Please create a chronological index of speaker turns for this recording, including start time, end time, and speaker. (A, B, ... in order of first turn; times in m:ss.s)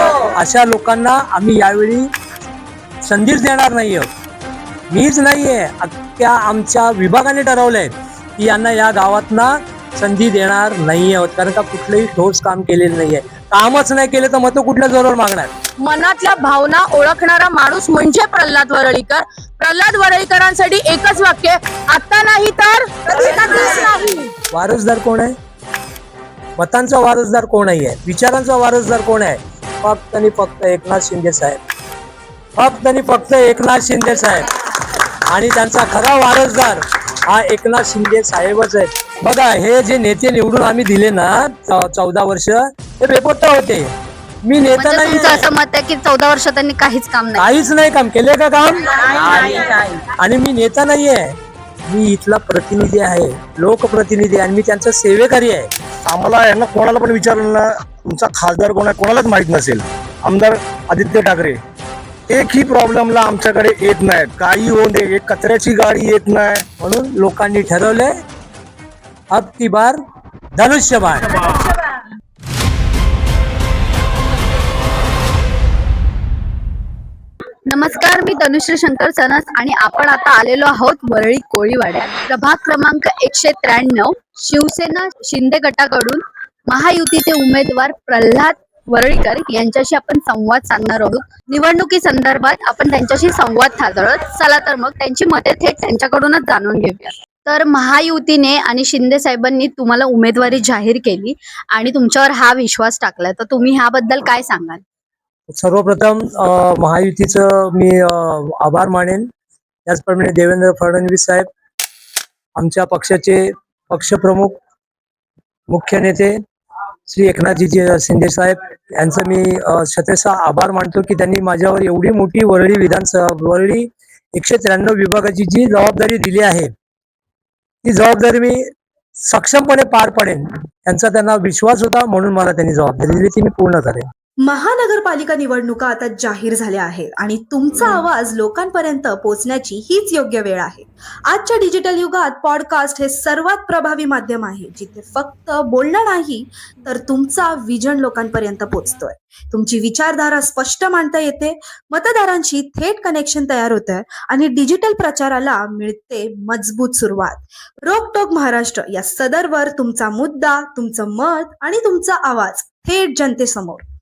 0:00.3-0:02.1 A
0:03.0-0:04.1 A
0:04.9-0:15.5 A
0:15.8-0:24.2 B
0:24.5-0:25.3 A
0:26.6-0:31.6 A
0:32.6-0:34.5 A
0:35.3-0:43.9 A
0:44.4-0:45.5 A
0:44.8-0:47.5 C
0:47.4-0:51.4 A
0:51.9-0:55.7 A
0:56.1-1:01.6 D
1:02.3-1:06.6 D
1:06.8-1:08.1 A
1:09.3-1:10.0 A
1:10.6-1:11.4 A
1:17.7-1:44.8 C
1:45.5-1:49.3 A
1:49.9-1:51.5 A
1:52.6-1:54.6 A
1:55.7-1:56.4 A
1:57.1-2:06.7 A
2:07.8-2:08.7 A
2:09.2-2:14.1 A
2:14.4-2:43.8 E